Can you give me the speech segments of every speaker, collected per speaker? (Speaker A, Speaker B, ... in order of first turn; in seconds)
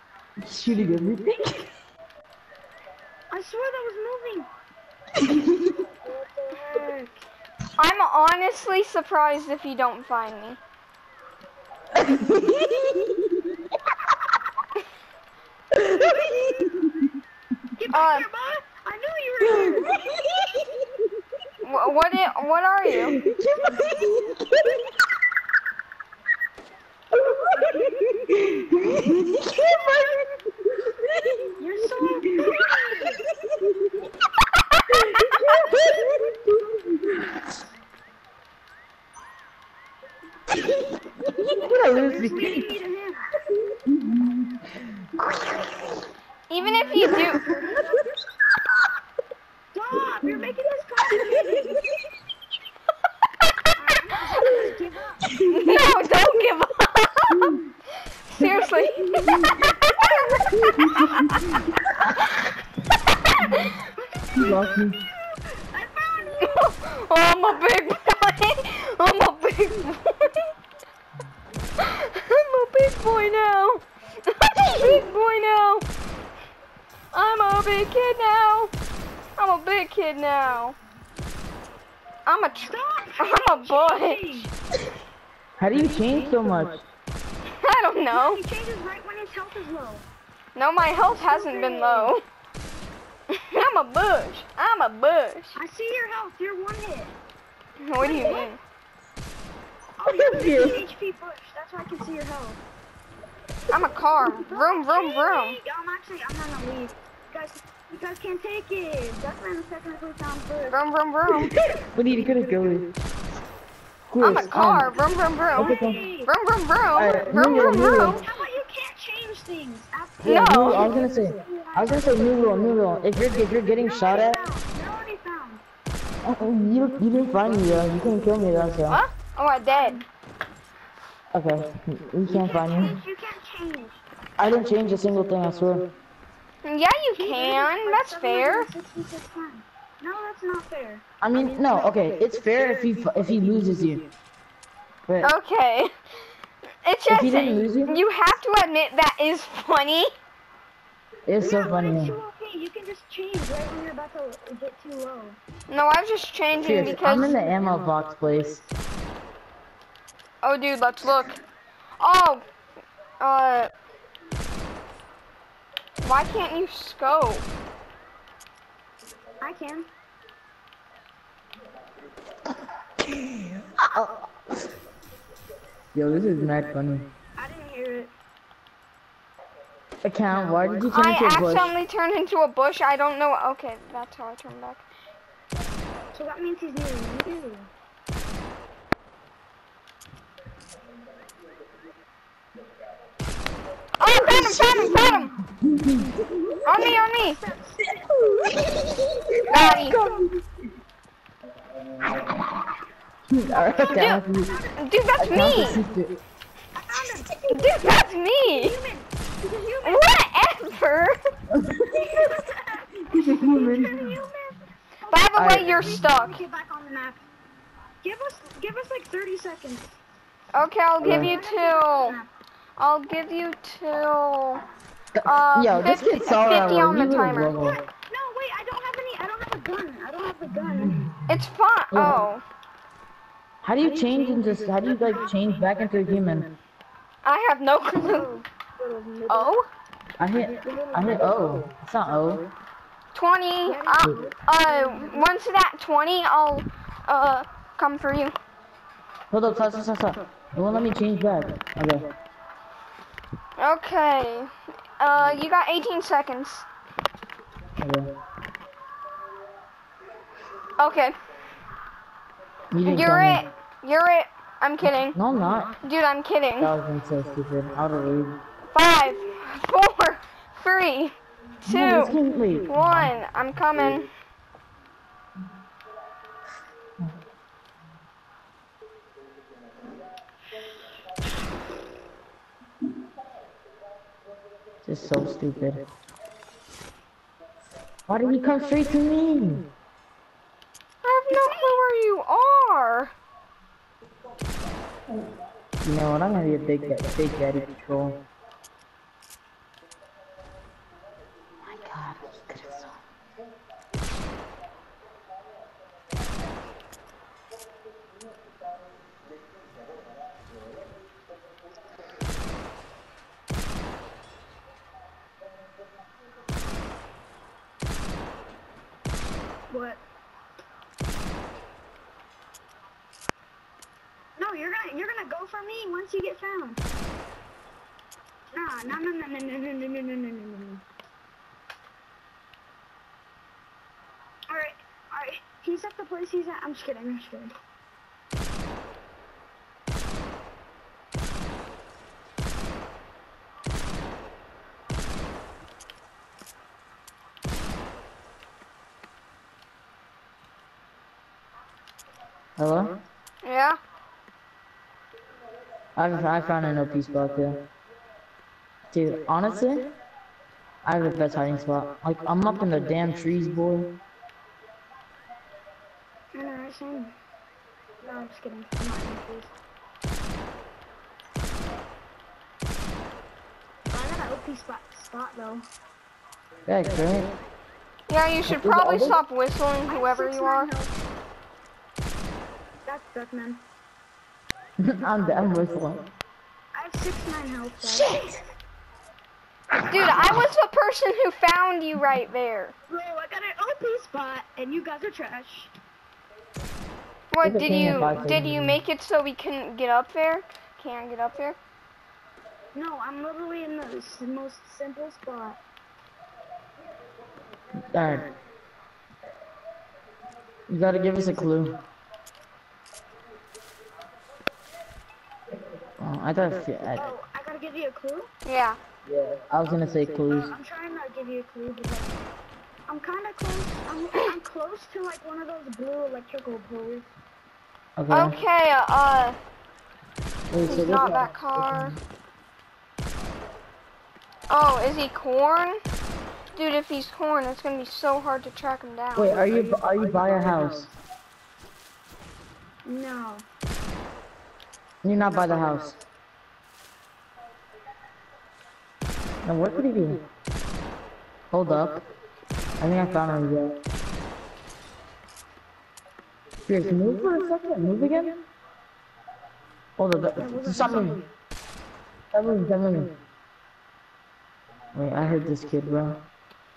Speaker A: 0.4-1.7, 5.2-5.7, 11.9-13.2, 15.7-17.1, 23.1-24.8, 27.1-30.2, 30.8-31.4, 32.2-32.5, 33.4-34.1, 34.9-37.4, 40.5-42.6, 43.7-45.5, 47.1-47.5, 55.3-55.8, 59.3-59.6, 60.5-61.6, 64.3-65.0, 85.6-86.8, 100.0-100.8, 111.7-112.9, 114.1-114.9, 115.5-116.0, 117.0-118.2, 120.2-124.4, 126.2-129.0, 131.3-133.0, 134.4-135.9, 141.2-144.0, 147.1-147.9, 151.2-152.1, 156.6-158.7, 173.0-174.3, 175.9-177.1, 180.0-181.7, 194.1-195.0, 195.6-196.1, 198.0-200.3, 202.1-202.4, 203.3-204.5, 205.2-206.1, 211.5-212.2, 213.1-214.2, 215.3-216.1, 221.0-221.3, 225.1-227.8, 231.9-232.2, 233.6-236.5, 240.2-242.4, 249.3-252.1, 257.8-258.1, 262.7-263.4, 265.1-265.8, 266.6-268.4, 271.6-273.1, 284.8-285.8, 288.1-289.6, 295.8-298.2, 301.6-303.0, 352.6-352.9, 355.9-357.6, 358.9-359.9, 360.8-363.9, 376.7-377.3, 378.5-379.2, 384.8-386.0, 388.0-388.2, 397.4-398.8, 407.8-408.3, 410.7-411.8, 416.0-417.1, 419.1-420.5, 428.0-428.4, 430.5-431.9, 439.1-440.9, 445.0-446.1, 449.4-450.2, 451.5-452.0, 452.8-453.8, 456.6-458.4, 460.0-461.2, 462.3-463.1, 464.9-466.2
Speaker B: 3.3-4.5, 5.8-7.2, 17.8-20.1, 23.7-24.1, 27.6-28.0, 29.3-30.2, 31.6-33.2, 35.4-36.3, 41.9-43.3, 46.6-48.1, 49.7-51.8, 53.8-55.4, 59.0-59.6, 60.8-61.2, 63.7-66.7, 82.6-84.5, 88.1-90.1, 90.9-92.1, 95.5-97.1, 98.0-98.5, 100.0-102.6, 104.2-110.8, 114.9-116.3, 117.3-122.5, 123.8-125.6, 129.7-130.1, 132.2-134.0, 137.2-141.0, 151.4-155.4, 169.4-169.9, 177.4-178.1, 186.1-187.7, 194.9-195.3, 196.7-198.0, 199.5-200.3, 203.5-203.9, 204.4-204.7, 206.7-207.5, 208.5-210.1, 211.9-217.2, 218.0-220.0, 221.0-222.3, 227.6-231.1, 237.8-239.5, 240.3-241.3, 243.7-245.3, 291.3-291.7, 319.7-320.0, 324.4-326.8, 328.5-330.8, 334.5-337.5, 366.3-367.2, 368.0-369.5, 373.9-375.6, 379.9-380.9, 382.9-383.6, 386.7-388.4, 392.9-395.7, 402.7-405.6, 416.9-418.3, 420.3-422.2, 422.9-427.1, 442.8-443.4, 460.4-461.2
Speaker C: 7.8-10.6, 17.9-18.2, 21.6-23.2, 46.5-47.4, 55.5-57.6, 58.2-61.6, 66.4-70.5, 71.8-75.8, 77.1-78.7, 79.4-80.8, 82.2-84.5, 87.6-88.4, 90.5-92.2, 93.3-95.6, 97.8-98.6, 103.7-105.6, 110.7-111.5, 114.2-118.2, 120.2-120.9, 128.9-130.0, 136.6-138.7, 145.2-145.9, 146.8-150.1, 155.7-157.3, 160.4-161.4, 162.0-162.4, 163.2-163.7, 166.0-167.5, 180.9-184.9, 194.0-195.3, 196.7-197.4, 199.5-199.9, 203.8-205.8, 207.5-208.8, 209.8-211.2, 215.1-216.4, 220.5-222.2, 222.8-224.6, 225.2-227.6, 231.3-232.4, 237.2-238.3, 239.3-239.7, 243.1-248.3, 253.6-256.6, 260.8-261.2, 262.8-265.1, 265.8-266.7, 268.7-274.1, 291.0-293.1, 353.4-353.8, 378.1-380.7, 389.9-392.7, 397.3-401.6, 418.4-418.8, 428.1-429.4, 430.6-431.9, 434.5-435.8, 436.5-439.4